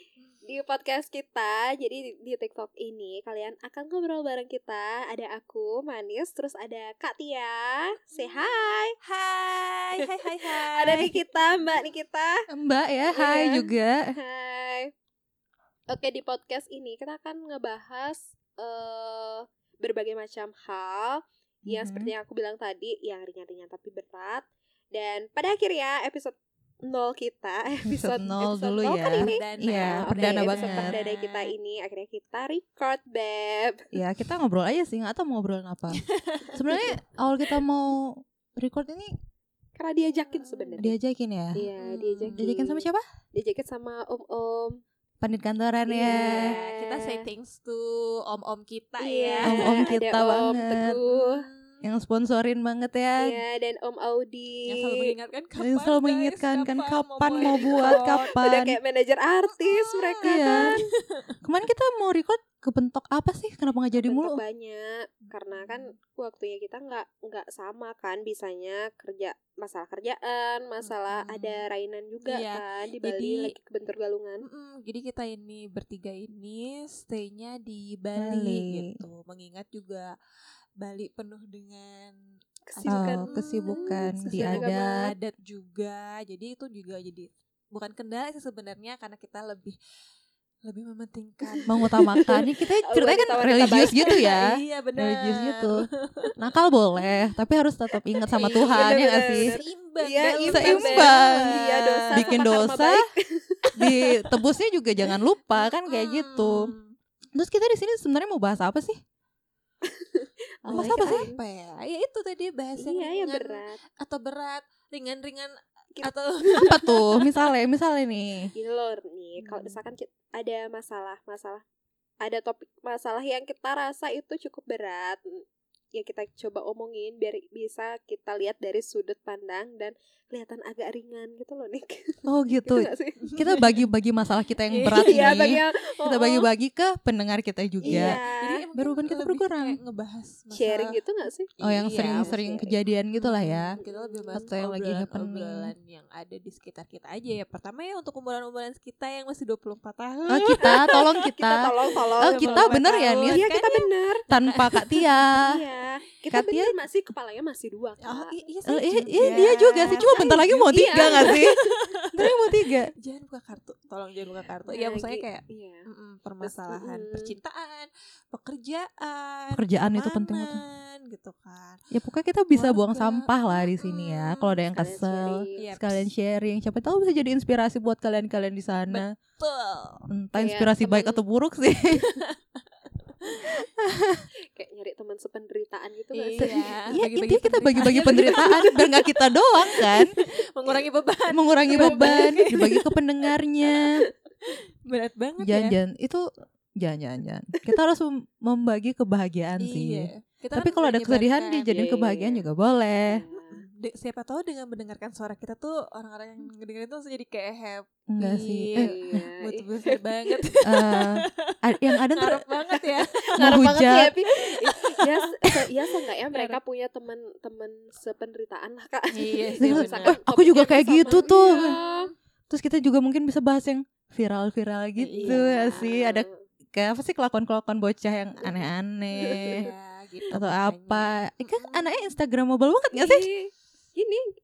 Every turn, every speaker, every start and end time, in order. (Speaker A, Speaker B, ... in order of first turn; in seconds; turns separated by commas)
Speaker A: 0.5-8.9, Speaker B: 8.2-11.4, Speaker A: 10.5-12.4, Speaker C: 10.9-11.2, Speaker C: 12.5-14.2, Speaker A: 13.1-14.9, Speaker A: 15.9-33.8, Speaker C: 21.7-22.1, Speaker C: 27.9-30.9, Speaker B: 29.1-31.5, Speaker C: 33.9-36.0, Speaker B: 35.9-37.0, Speaker C: 36.5-39.1, Speaker A: 39.8-41.0, Speaker B: 40.3-40.9, Speaker C: 40.8-41.6, Speaker A: 41.5-44.8, Speaker B: 41.8-42.5, Speaker C: 42.4-43.0, Speaker C: 45.2-46.6, Speaker A: 45.9-47.3, Speaker B: 46.1-49.9, Speaker A: 49.0-51.4, Speaker C: 49.4-51.0, Speaker B: 51.1-51.8, Speaker C: 51.8-53.4, Speaker A: 53.2-55.1, Speaker B: 54.7-58.3, Speaker C: 55.6-58.8, Speaker A: 57.4-60.8, Speaker B: 59.6-61.4, Speaker C: 60.2-60.8, Speaker C: 61.4-64.4, Speaker A: 64.0-74.5, Speaker B: 65.2-65.9, Speaker B: 70.8-71.7, Speaker B: 72.3-73.5, Speaker B: 74.5-80.1, Speaker C: 78.2-79.0, Speaker B: 80.8-82.1, Speaker A: 82.7-85.0, Speaker B: 82.7-89.8, Speaker C: 82.9-85.1, Speaker B: 90.7-91.8, Speaker A: 91.5-94.2, Speaker C: 91.7-99.6, Speaker B: 94.0-96.3, Speaker B: 98.3-102.5, Speaker A: 98.5-104.2, Speaker C: 100.5-103.0, Speaker C: 103.8-106.7, Speaker B: 105.0-107.0, Speaker C: 107.3-109.0, Speaker A: 109.9-111.4, Speaker B: 110.7-116.9, Speaker C: 110.7-111.3, Speaker A: 112.8-113.8, Speaker A: 116.0-116.9, Speaker C: 116.6-118.5, Speaker A: 118.5-121.7, Speaker B: 119.4-119.8, Speaker A: 122.2-125.4, Speaker A: 125.9-133.2, Speaker C: 132.3-138.2, Speaker B: 133.3-133.8, Speaker B: 134.7-135.6, Speaker A: 134.9-136.5, Speaker A: 137.8-138.6, Speaker B: 137.9-141.0, Speaker C: 138.8-139.8, Speaker A: 140.5-142.8, Speaker B: 141.6-142.4, Speaker C: 141.6-143.8, Speaker B: 143.1-151.3, Speaker A: 143.8-144.5, Speaker C: 144.3-145.7, Speaker C: 150.3-153.4, Speaker A: 150.6-154.2, Speaker B: 152.2-155.2, Speaker C: 154.3-155.6, Speaker A: 155.3-158.4, Speaker C: 156.3-156.8, Speaker B: 158.0-171.8, Speaker C: 158.7-161.6, Speaker A: 159.2-162.4, Speaker C: 162.2-162.9, Speaker A: 164.7-165.9, Speaker A: 166.4-167.4, Speaker C: 169.5-170.6, Speaker C: 171.9-179.1, Speaker B: 172.5-174.6, Speaker A: 174.7-175.6, Speaker B: 175.6-176.1, Speaker B: 178.9-180.1, Speaker C: 180.1-182.1, Speaker A: 180.3-180.8, Speaker B: 180.8-181.2, Speaker B: 182.0-182.3, Speaker C: 183.8-184.2, Speaker A: 184.6-186.6, Speaker B: 186.1-189.0, Speaker C: 186.4-190.1, Speaker A: 187.8-188.8, Speaker B: 189.6-192.9, Speaker C: 191.3-194.0, Speaker A: 191.7-192.4, Speaker B: 194.4-195.8, Speaker C: 195.4-196.2, Speaker C: 196.8-203.2, Speaker B: 199.6-202.4, Speaker A: 203.0-203.7, Speaker B: 203.5-213.7, Speaker C: 208.1-209.2, Speaker A: 208.8-210.4, Speaker C: 210.6-212.4, Speaker A: 213.2-222.1, Speaker C: 213.4-214.1, Speaker B: 214.3-216.6, Speaker B: 219.1-220.2, Speaker C: 219.6-221.8, Speaker B: 221.1-222.1, Speaker C: 222.5-229.7, Speaker B: 225.0-225.8, Speaker A: 225.2-226.4, Speaker A: 229.2-229.7, Speaker B: 229.5-232.2, Speaker C: 230.3-233.3, Speaker A: 232.9-234.2